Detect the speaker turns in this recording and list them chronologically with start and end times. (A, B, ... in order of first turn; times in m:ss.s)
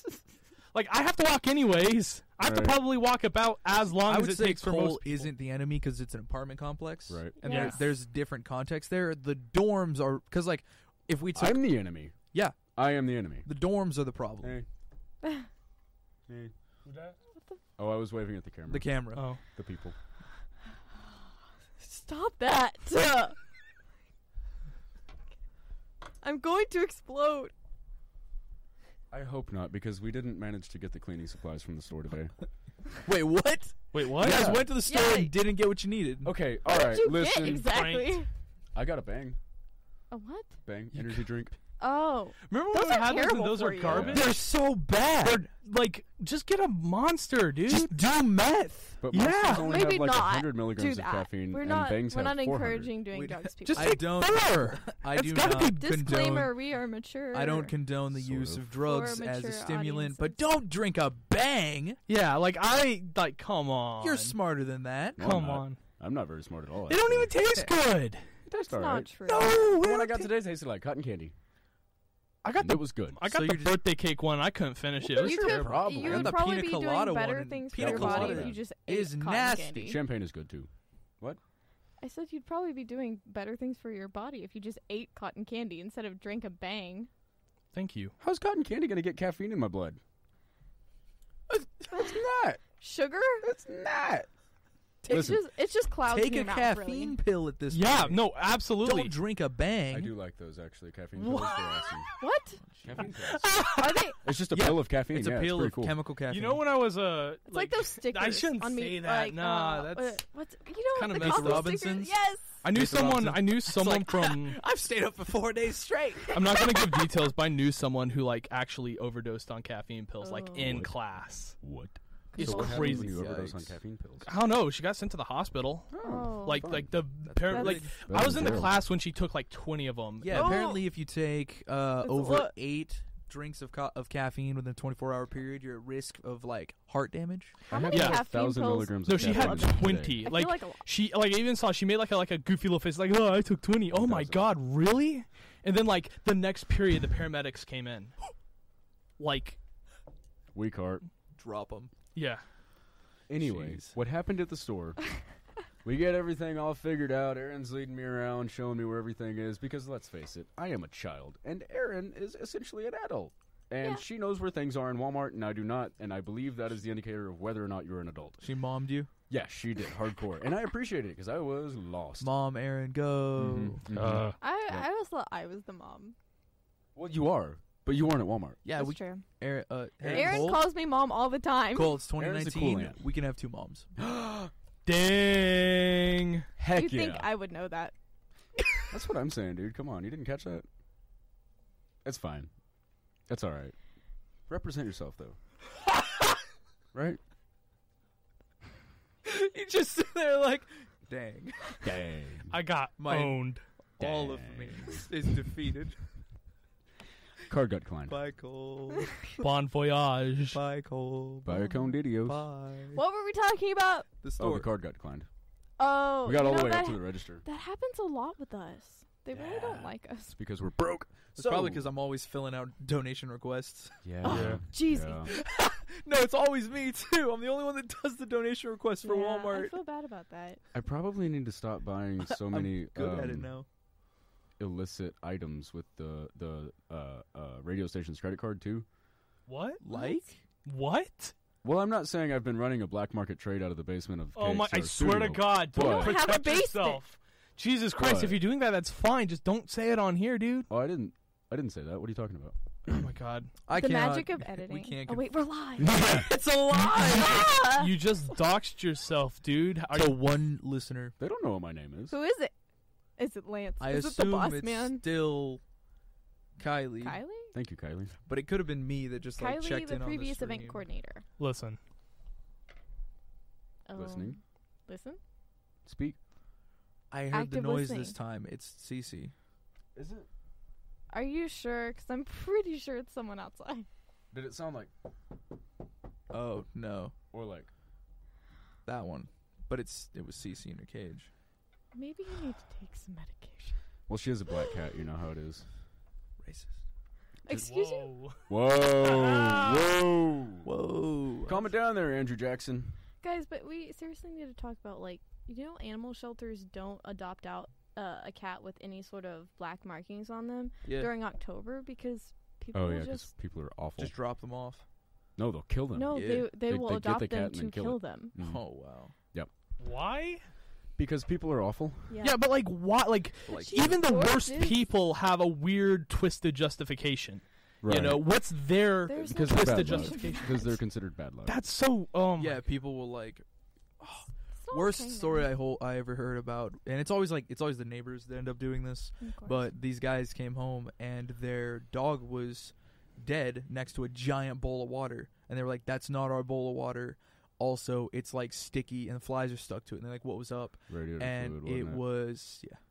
0:00.7-0:05.3 A
0:02.4-0:02.8 B
0:03.9-0:11.8 C
0:07.1-0:07.4 B
0:07.4-0:07.9 D
0:07.4-0:07.8 A
0:11.4-0:12.2 B
0:12.3-0:12.6 C
0:12.8-0:13.5 B
0:13.4-0:14.6 C
0:14.4-0:14.7 B
0:16.3-0:16.5 B
0:16.9-0:17.2 A
0:17.8-0:18.9 B
0:18.7-0:19.3 C
0:19.2-0:19.4 A
0:19.5-0:20.0 B
0:21.8-0:23.4 D
0:26.2-0:27.5 D
0:29.1-0:32.4 B
0:33.0-0:36.3 C
0:33.9-0:34.5 A
0:34.2-0:34.7 B
0:34.8-0:35.4 D
0:36.2-0:37.7 B
0:36.7-0:38.3 D
0:37.4-0:38.2 A
0:38.8-0:39.4 B
0:40.1-0:40.6 D
0:40.7-0:41.6 B
0:41.0-0:41.2 C
0:41.8-0:44.1 D
0:42.5-0:44.4 A
0:43.8-0:44.3 B
0:44.1-0:45.5 C
0:45.2-0:47.9 A
0:47.7-0:49.1 C
0:49.0-0:52.9 B
0:49.1-0:49.8 A
0:49.5-0:54.1 D
0:53.1-0:56.5 C
0:53.7-0:56.0 A
0:55.3-0:57.7 D
0:57.3-1:02.0 C
0:58.1-0:58.7 B
0:58.8-1:00.5 D
1:02.1-1:04.4 A
1:04.0-1:05.3 C
1:05.2-1:07.3 B
1:05.2-1:05.8 A
1:06.9-1:08.2 A
1:08.5-1:11.3 B
1:08.5-1:09.7 D
1:09.3-1:10.3 A
1:12.4-1:15.9 A
1:12.6-1:13.2 B
1:13.2-1:13.8 C
1:15.0-1:20.0 D
1:15.2-1:16.4 B
1:16.0-1:20.0 C
1:17.8-1:18.6 B
1:19.8-1:20.7 B
1:22.0-1:27.1 D
1:27.7-1:28.2 A
1:28.2-1:30.0 B
1:31.5-1:32.6 B
1:31.9-1:32.2 D
1:32.8-1:33.5 D
1:33.4-1:34.3 B
1:35.0-1:37.2 D
1:35.1-1:35.4 B
1:36.1-1:38.2 C
1:37.7-1:39.2 A
1:38.8-1:40.1 C
1:39.9-1:42.1 B
1:41.2-1:41.6 A
1:42.2-1:42.6 D
1:42.6-1:43.0 C
1:42.8-1:43.6 B
1:43.1-1:44.1 A
1:43.7-1:44.2 D
1:44.2-1:46.0 B
1:44.5-1:46.6 C
1:46.3-1:50.2 A
1:47.5-1:52.6 D
1:50.9-1:51.9 A
1:51.1-1:56.7 C
1:52.6-1:54.6 A
1:56.3-2:01.6 A
1:56.4-1:57.1 D
2:00.2-2:00.9 D
2:00.6-2:00.9 B
2:01.6-2:04.3 B
2:02.3-2:03.2 D
2:02.4-2:03.2 A
2:02.4-2:03.8 C
2:04.2-2:10.6 A
2:05.9-2:07.0 B
2:06.0-2:06.8 D
2:07.2-2:08.3 C
2:07.5-2:07.8 D
2:08.1-2:08.9 B
2:10.2-2:17.6 C
2:10.3-2:10.8 D
2:12.0-2:12.6 D
2:17.7-2:20.3 B
2:17.7-2:20.8 D
2:17.9-2:18.3 A
2:19.1-2:28.2 A
2:23.9-2:24.5 B
2:29.2-2:29.6 A
2:30.5-2:31.0 B
2:31.4-2:31.9 C
2:32.2-2:32.4 A
2:33.3-2:35.0 B
2:33.4-2:34.0 C
2:35.8-2:48.4 B
2:48.4-2:49.1 C
2:49.3-2:52.3 B
2:52.2-2:53.9 C
2:53.4-2:54.9 B
2:53.9-2:54.4 A
2:54.4-2:56.2 D
2:57.0-2:58.6 B
2:58.6-3:00.7 C
2:58.8-2:59.2 D
3:00.0-3:00.6 B
3:00.1-3:02.0 D
3:01.7-3:03.9 C
3:02.2-3:03.0 B
3:04.0-3:04.5 B
3:04.9-3:06.5 A
3:06.6-3:07.3 B
3:06.7-3:07.9 D
3:08.9-3:10.7 B
3:12.0-3:12.5 B
3:13.3-3:13.8 B
3:14.5-3:15.4 B
3:16.9-3:17.2 B
3:19.2-3:21.9 C
3:21.8-3:22.6 B
3:22.5-3:23.6 A
3:23.0-3:23.4 C
3:24.0-3:26.0 C
3:24.0-3:25.3 B
3:27.5-3:28.2 B
3:28.1-3:29.4 C
3:29.4-3:30.6 A
3:30.5-3:33.0 C
3:31.4-3:32.4 B
3:31.5-3:32.0 D
3:32.9-3:34.1 D
3:34.2-3:34.7 C
3:34.4-3:35.3 B
3:35.8-3:40.4 D
3:36.2-3:37.4 B
3:39.3-3:41.9 B
3:41.4-3:44.1 C
3:44.0-3:45.3 B
3:44.2-3:45.3 D
3:44.3-3:44.6 A
3:45.2-3:49.8 C
3:49.0-3:50.6 D
3:50.7-3:53.5 B
3:52.2-3:53.7 C
3:54.6-3:58.9 B
3:59.5-3:59.8 A
3:59.8-4:00.4 C
3:59.9-4:00.3 D
4:00.6-4:01.3 A
4:01.6-4:06.2 B
4:04.4-4:10.7 A
4:05.8-4:07.0 D
4:08.0-4:08.4 B
4:10.7-4:13.0 B
4:12.9-4:13.5 A
4:13.7-4:15.3 C
4:13.7-4:17.9 D
4:15.8-4:16.3 B
4:15.9-4:17.4 C
4:17.7-4:20.2 A
4:19.9-4:21.2 C
4:21.2-4:22.2 B
4:22.1-4:22.5 D
4:23.2-4:25.0 D
4:23.8-4:25.6 C
4:26.6-4:27.2 C
4:27.0-4:27.5 D
4:27.5-4:28.1 B
4:28.3-4:30.8 C
4:29.4-4:31.2 D
4:31.4-4:31.8 A
4:33.9-4:35.2 D
4:34.0-4:34.4 B
4:35.9-4:36.2 B
4:37.1-4:39.3 C
4:37.3-4:38.2 D
4:40.0-4:40.3 B
4:41.1-4:43.9 D
4:44.3-4:44.9 B
4:46.3-4:47.1 C
4:47.3-4:47.7 B
4:48.9-4:51.3 C
4:51.9-4:53.8 D
4:54.1-4:55.6 B
4:54.5-4:54.9 D
4:56.4-4:56.8 C
4:57.4-4:58.1 D
4:57.5-4:59.9 A
4:58.5-5:00.7 B
5:00.6-5:01.7 C
5:01.5-5:03.0 B
5:03.2-5:13.3 D
5:10.8-5:11.1 C
5:12.7-5:14.1 B
5:14.0-5:14.8 C
5:15.4-5:18.6 B
5:15.9-5:18.4 D
5:16.1-5:16.5 C
5:18.4-5:19.1 C
5:19.8-5:20.4 A
5:21.0-5:22.1 B
5:22.1-5:22.4 D
5:22.2-5:30.7 A
5:23.5-5:24.0 C
5:23.6-5:24.8 D
5:27.8-5:28.3 B
5:29.1-5:30.8 D
5:29.2-5:31.6 B
5:31.5-5:32.6 A
5:32.4-5:33.4 C
5:34.0-5:52.8 C
5:34.6-5:35.5 D
5:39.2-5:39.7 D
5:50.9-5:52.0 B